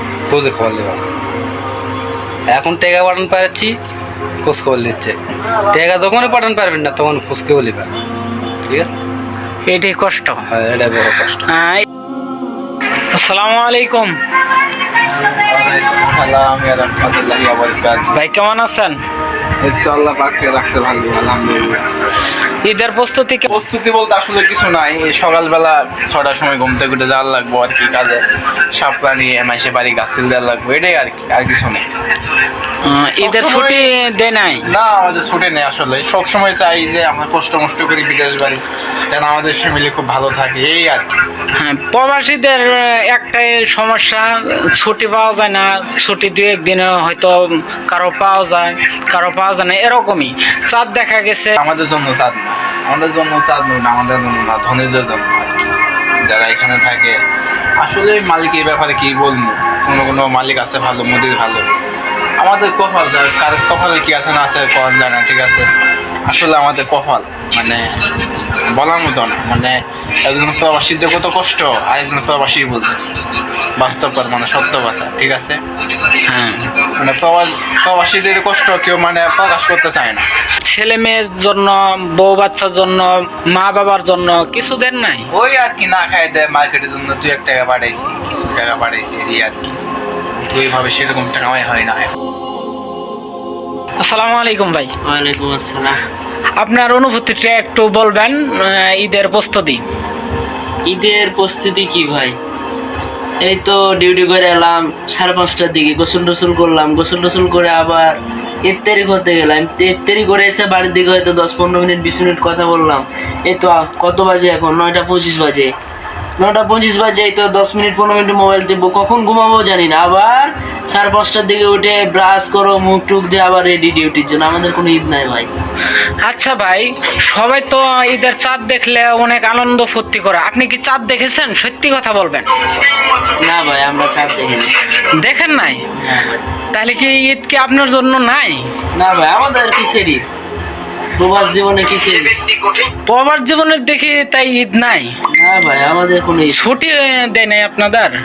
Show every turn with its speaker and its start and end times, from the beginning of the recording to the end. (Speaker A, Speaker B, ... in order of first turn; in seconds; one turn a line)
Speaker A: 0.3-1.0
Speaker A: 2.5-3.7
Speaker A: 4.4-5.2
Speaker A: 5.7-7.9
Speaker A: 8.7-8.9
Speaker B: 9.7-10.4
Speaker A: 10.5-11.4
Speaker B: 11.5-11.8
Speaker B: 13.1-14.1
Speaker C: 15.3-18.1
Speaker B: 18.1-19.0
Speaker C: 19.6-21.9
Speaker B: 22.6-23.5
Speaker C: 23.5-31.9
Speaker B: 32.8-34.6
Speaker C: 33.2-33.8
Speaker C: 34.7-41.1
Speaker B: 41.5-51.5
Speaker C: 51.6-57.2
Speaker C: 57.8-61.6
Speaker C: 62.4-65.7
Speaker C: 66.3-67.8
Speaker C: 68.5-73.0
Speaker C: 73.8-75.6
Speaker B: 76.3-76.7
Speaker C: 76.9-80.2
Speaker B: 80.6-85.3
Speaker C: 85.3-89.8
Speaker C: 90.4-92.1
Speaker B: 94.0-94.9
Speaker D: 95.0-96.0
Speaker B: 96.6-99.8
Speaker D: 100.9-102.3
Speaker D: 103.4-108.1
Speaker D: 108.6-115.7
Speaker D: 116.4-125.5
Speaker B: 126.2-132.5
Speaker D: 133.2-134.7
Speaker B: 135.1-135.8
Speaker D: 136.0-136.4
Speaker B: 136.7-138.6
Speaker D: 138.9-140.2
Speaker D: 141.2-142.7
Speaker B: 143.1-145.1
Speaker D: 145.3-146.7
Speaker B: 146.5-148.1